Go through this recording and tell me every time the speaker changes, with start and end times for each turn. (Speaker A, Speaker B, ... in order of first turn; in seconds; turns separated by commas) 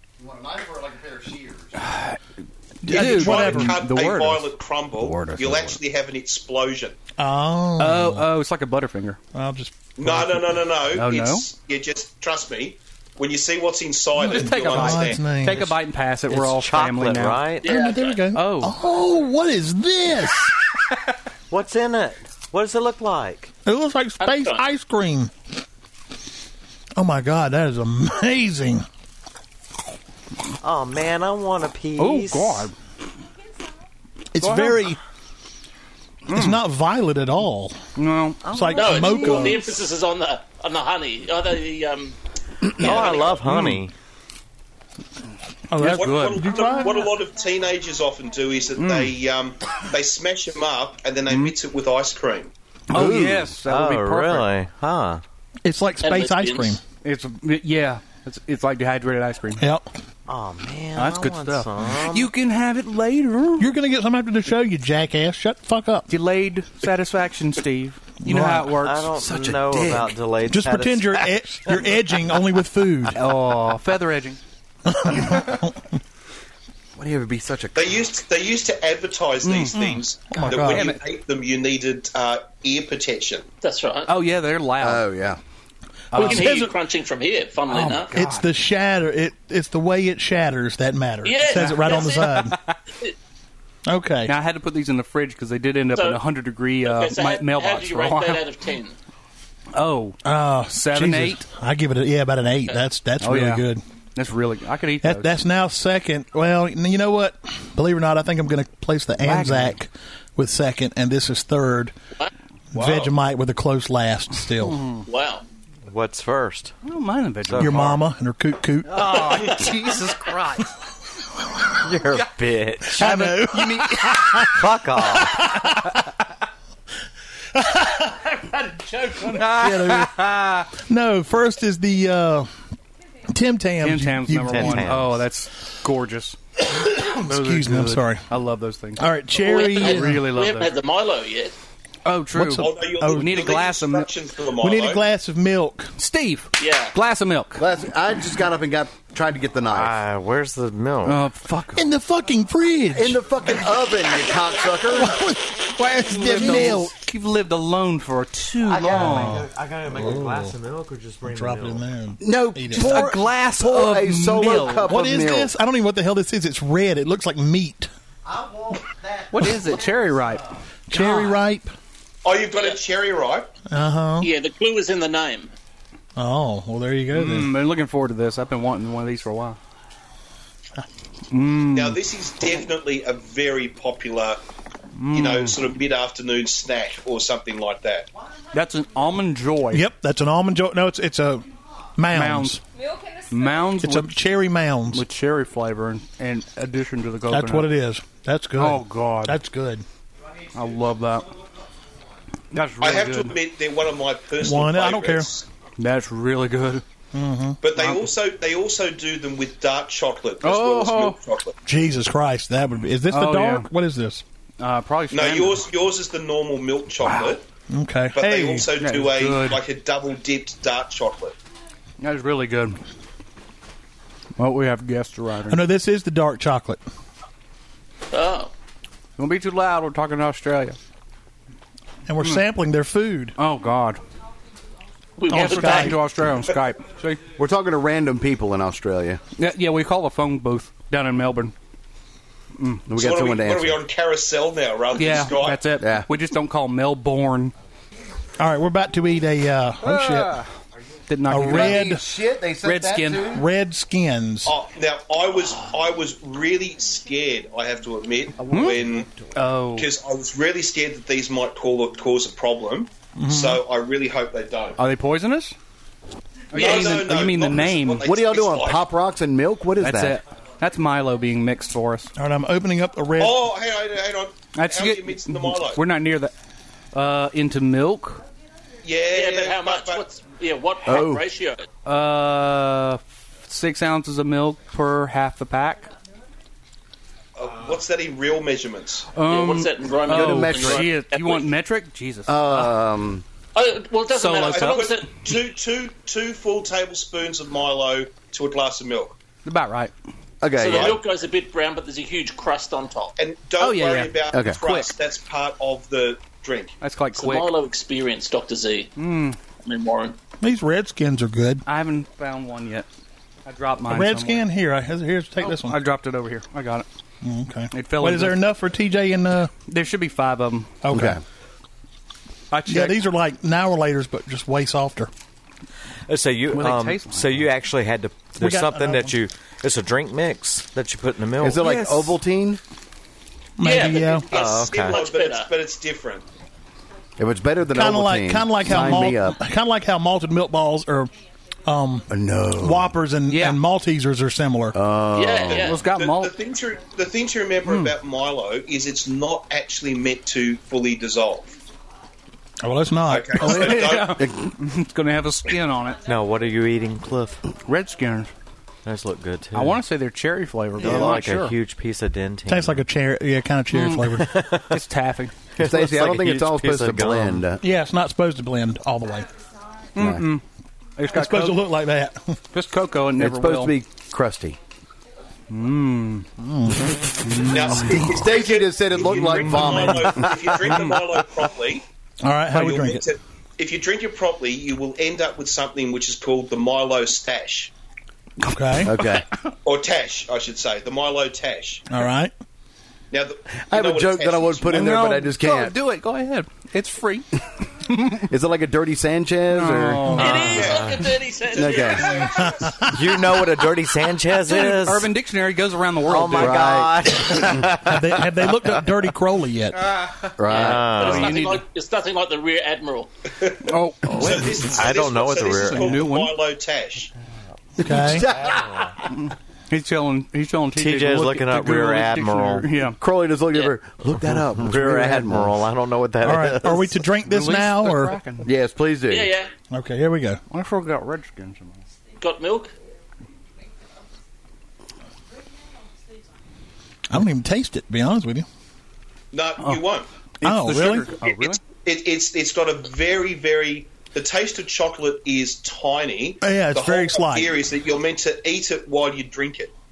Speaker A: 0.2-1.8, Speaker B: 1.8-2.2, Speaker C: 2.8-3.8, Speaker B: 2.8-5.8, Speaker D: 2.9-7.0, Speaker C: 7.2-8.3, Speaker B: 7.8-9.2, Speaker C: 9.3-10.4, Speaker D: 10.0-15.3, Speaker B: 10.9-11.5, Speaker B: 14.2-17.5, Speaker C: 14.2-15.7, Speaker E: 16.3-17.7, Speaker F: 17.6-18.2, Speaker C: 17.6-20.5, Speaker B: 18.3-18.8, Speaker E: 21.5-23.5, Speaker C: 23.6-25.3, Speaker F: 24.2-24.6, Speaker C: 26.9-28.9, Speaker E: 30.6-32.7, Speaker B: 32.0-32.7, Speaker G: 33.3-33.9, Speaker C: 34.3-35.0, Speaker B: 34.4-34.9, Speaker B: 36.2-36.6, Speaker C: 36.3-37.8, Speaker B: 38.0-39.1, Speaker C: 38.4-39.7, Speaker E: 38.5-39.4, Speaker F: 38.7-43.5, Speaker E: 42.7-43.9, Speaker D: 42.9-43.1, Speaker B: 43.5-43.8, Speaker C: 45.7-47.0, Speaker B: 45.8-46.4, Speaker D: 45.8-52.5, Speaker G: 46.6-48.7, Speaker B: 48.8-49.1, Speaker B: 52.9-54.5, Speaker A: 52.9-53.5, Speaker E: 53.6-55.2, Speaker C: 55.6-56.8, Speaker F: 56.0-56.8, Speaker B: 57.0-59.6, Speaker C: 59.6-59.9, Speaker E: 60.3-62.3, Speaker B: 60.9-63.7, Speaker C: 63.6-66.1, Speaker B: 66.1-69.1, Speaker C: 68.2-68.7, Speaker E: 68.8-72.0, Speaker A: 69.1-70.2, Speaker C: 70.5-73.2, Speaker B: 73.1-74.4, Speaker C: 74.8-75.8, Speaker A: 76.9-78.1, Speaker D: 77.7-83.5, Speaker B: 79.4-79.8, Speaker C: 79.8-80.9, Speaker B: 80.3-81.0, Speaker F: 83.6-84.1, Speaker B: 84.1-85.1, Speaker A: 84.8-85.4, Speaker B: 86.1-86.7, Speaker C: 86.1-86.7, Speaker F: 86.1-88.1, Speaker B: 87.7-88.5, Speaker C: 88.1-92.6, Speaker F: 91.2-93.1, Speaker B: 91.5-92.8, Speaker C: 93.8-94.3, Speaker B: 94.2-98.4, Speaker F: 95.9-96.2, Speaker F: 96.8-99.0, Speaker B: 99.7-101.5, Speaker C: 100.2-103.8, Speaker B: 103.2-105.4, Speaker C: 105.0-111.9, Speaker B: 109.2-109.8, Speaker C: 112.7-114.9, Speaker D: 112.7-113.1, Speaker B: 114.5-115.0, Speaker F: 115.0-115.4, Speaker E: 115.9-116.7, Speaker B: 116.8-118.0, Speaker E: 117.5-118.0, Speaker C: 117.6-119.1, Speaker B: 118.9-120.7, Speaker E: 119.2-120.0, Speaker E: 121.8-123.2, Speaker C: 122.9-126.0, Speaker B: 123.0-124.0, Speaker E: 124.4-125.5, Speaker C: 127.5-128.3, Speaker B: 128.7-130.7, Speaker C: 129.2-132.5, Speaker C: 133.3-134.9, Speaker B: 133.8-140.8, Speaker E: 134.5-135.2, Speaker C: 136.7-138.3, Speaker C: 139.0-140.2, Speaker F: 139.3-141.6, Speaker B: 142.0-144.1, Speaker C: 142.3-143.4, Speaker D: 142.6-145.0, Speaker C: 144.6-145.9, Speaker B: 146.0-147.6, Speaker F: 146.6-146.9, Speaker A: 147.6-150.0, Speaker E: 149.7-151.2, Speaker B: 151.0-151.9, Speaker C: 151.7-153.7, Speaker A: 152.9-155.2, Speaker C: 154.9-157.0, Speaker B: 155.8-159.5, Speaker E: 158.6-161.8, Speaker C: 158.9-160.5, Speaker C: 161.2-163.2, Speaker A: 162.2-165.5, Speaker B: 162.7-165.0, Speaker C: 164.8-167.9, Speaker E: 168.2-170.4, Speaker B: 169.3-171.4, Speaker C: 170.9-171.7, Speaker D: 172.2-173.5, Speaker C: 173.7-174.3, Speaker F: 174.2-175.5, Speaker C: 176.2-177.5, Speaker B: 177.1-179.6, Speaker B: 181.3-182.0, Speaker D: 181.7-184.4, Speaker B: 184.9-185.6, Speaker D: 185.1-188.1, Speaker B: 188.5-189.9, Speaker G: 188.5-189.2, Speaker C: 189.7-192.6, Speaker B: 192.1-192.6, Speaker G: 192.7-193.9, Speaker B: 193.3-194.2, Speaker C: 193.8-195.0, Speaker B: 194.9-197.8, Speaker C: 197.3-199.8, Speaker B: 198.5-199.4, Speaker B: 200.5-201.4, Speaker B: 202.5-203.4, Speaker D: 202.8-205.4, Speaker C: 204.4-205.3, Speaker B: 205.8-206.8, Speaker C: 207.1-207.6, Speaker D: 207.6-211.6, Speaker B: 207.8-208.1, Speaker B: 210.4-211.2, Speaker C: 211.7-214.2, Speaker B: 213.1-213.7, Speaker B: 214.6-215.7, Speaker D: 215.1-217.4, Speaker B: 217.0-217.4, Speaker C: 217.7-218.7, Speaker D: 218.1-221.3, Speaker B: 218.7-219.6, Speaker B: 222.0-222.8, Speaker B: 224.3-225.6, Speaker C: 225.5-226.8, Speaker F: 228.1-228.5, Speaker B: 229.2-230.8, Speaker C: 232.1-233.4, Speaker B: 233.4-234.0, Speaker G: 233.9-235.3, Speaker F: 235.2-236.0, Speaker C: 235.3-236.0, Speaker B: 235.3-237.2, Speaker A: 237.3-239.2, Speaker B: 239.3-241.5, Speaker B: 242.6-242.9, Speaker A: 242.9-243.8, Speaker D: 242.9-245.6, Speaker B: 244.9-247.5, Speaker A: 245.8-246.1, Speaker C: 248.4-250.4, Speaker B: 249.8-250.5, Speaker B: 251.1-251.9, Speaker C: 251.3-252.0, Speaker A: 251.4-253.5, Speaker B: 252.6-253.4, Speaker C: 253.2-254.5, Speaker D: 254.4-259.2, Speaker A: 258.4-258.8, Speaker B: 258.5-259.9, Speaker D: 259.7-264.8, Speaker C: 263.1-263.6, Speaker B: 264.8-265.6, Speaker B: 266.5-268.1, Speaker D: 266.5-268.9, Speaker A: 268.0-270.2, Speaker B: 269.8-272.1, Speaker G: 270.6-271.7, Speaker C: 272.1-273.4, Speaker D: 273.2-275.8, Speaker B: 274.5-276.3, Speaker B: 276.9-278.2, Speaker G: 278.1-279.3, Speaker D: 278.8-280.0, Speaker F: 279.1-281.7, Speaker A: 280.9-281.2, Speaker B: 281.8-285.9, Speaker G: 285.7-286.4, Speaker D: 287.4-289.1, Speaker B: 289.1-292.8, Speaker F: 289.2-291.5, Speaker A: 290.1-290.9, Speaker A: 292.3-293.2, Speaker F: 293.5-295.1, Speaker B: 294.1-295.0, Speaker D: 294.4-299.1, Speaker B: 299.4-299.9, Speaker A: 300.4-301.0, Speaker F: 300.5-303.1, Speaker D: 300.7-301.0, Speaker D: 303.2-306.8, Speaker B: 303.6-304.9, Speaker A: 304.3-304.6, Speaker B: 306.8-307.5, Speaker F: 307.1-308.9, Speaker B: 308.9-309.4, Speaker F: 309.6-310.2, Speaker C: 310.4-311.6, Speaker B: 311.6-312.9, Speaker B: 313.4-314.5, Speaker C: 313.9-315.8, Speaker B: 315.4-316.9, Speaker C: 317.2-319.5, Speaker B: 317.7-318.4, Speaker B: 319.6-320.8, Speaker C: 320.8-321.2, Speaker A: 320.9-321.2, Speaker B: 322.5-323.0, Speaker C: 322.7-325.1, Speaker E: 326.1-331.6, Speaker B: 326.5-327.3, Speaker C: 328.4-329.1, Speaker A: 331.4-332.6, Speaker B: 331.6-332.2, Speaker C: 333.6-334.3, Speaker F: 333.6-335.5, Speaker D: 333.9-336.2, Speaker E: 334.3-335.0, Speaker G: 336.7-337.7, Speaker A: 337.2-339.4, Speaker C: 337.7-341.1, Speaker G: 338.6-339.3, Speaker G: 340.2-342.6, Speaker C: 341.6-342.1, Speaker A: 342.1-342.9, Speaker C: 342.6-344.8, Speaker B: 343.3-343.6, Speaker A: 344.7-345.7, Speaker F: 345.1-345.8, Speaker B: 345.5-346.4, Speaker D: 345.9-351.5, Speaker G: 346.2-347.6, Speaker B: 347.6-347.9, Speaker G: 351.2-352.1, Speaker C: 352.6-353.7, Speaker D: 353.1-354.2, Speaker B: 353.4-356.0, Speaker A: 354.2-354.4, Speaker G: 355.5-358.3, Speaker E: 356.0-357.4, Speaker B: 357.6-358.3, Speaker E: 358.8-359.8, Speaker B: 359.5-361.6, Speaker E: 360.8-362.8, Speaker C: 362.5-364.4, Speaker B: 363.7-365.4, Speaker E: 364.1-364.8, Speaker E: 365.6-367.4, Speaker A: 365.6-367.6, Speaker C: 367.6-369.3, Speaker G: 369.0-370.3, Speaker B: 369.9-370.4, Speaker A: 369.9-370.3, Speaker G: 371.0-371.5, Speaker B: 371.0-371.7, Speaker C: 371.1-372.4, Speaker B: 372.5-373.8, Speaker A: 373.2-374.6, Speaker G: 375.2-376.1, Speaker B: 375.5-376.3, Speaker C: 376.4-377.4, Speaker B: 377.3-378.1, Speaker D: 377.4-381.8, Speaker A: 377.7-380.7, Speaker B: 379.4-380.1, Speaker B: 380.7-381.0, Speaker C: 382.2-383.1, Speaker D: 382.5-387.7, Speaker B: 388.4-389.3, Speaker C: 388.4-389.0, Speaker A: 388.8-389.2, Speaker D: 389.6-391.9, Speaker C: 391.9-392.3, Speaker D: 393.1-394.9, Speaker A: 393.7-395.7, Speaker B: 394.7-397.3, Speaker B: 397.8-398.3, Speaker A: 398.3-400.2, Speaker B: 399.5-400.8, Speaker F: 400.1-402.5, Speaker E: 400.2-401.1, Speaker D: 400.4-402.8, Speaker A: 401.5-402.3, Speaker C: 402.3-403.0, Speaker E: 402.8-405.1, Speaker B: 404.3-406.8, Speaker E: 406.1-408.8, Speaker A: 406.4-407.6, Speaker C: 407.4-409.8, Speaker B: 409.8-411.6, Speaker A: 410.4-410.9, Speaker F: 410.5-413.1, Speaker E: 410.5-411.4, Speaker D: 413.4-417.1, Speaker B: 413.6-416.4, Speaker E: 414.7-416.0, Speaker A: 417.8-418.6, Speaker C: 417.8-418.4, Speaker E: 418.2-418.9, Speaker B: 419.1-423.0, Speaker E: 420.7-422.7, Speaker A: 423.0-425.6, Speaker E: 424.2-427.0, Speaker C: 426.2-428.2, Speaker B: 427.2-428.5, Speaker A: 428.4-429.3, Speaker F: 429.1-429.5, Speaker C: 429.7-430.4, Speaker B: 430.5-431.8, Speaker G: 432.0-432.9, Speaker F: 432.2-432.7, Speaker G: 433.6-434.0, Speaker G: 435.2-436.5, Speaker C: 437.1-438.4, Speaker D: 439.3-440.1, Speaker B: 439.6-439.9, Speaker B: 440.4-441.6, Speaker C: 440.4-441.1, Speaker D: 441.2-449.7, Speaker C: 446.4-447.6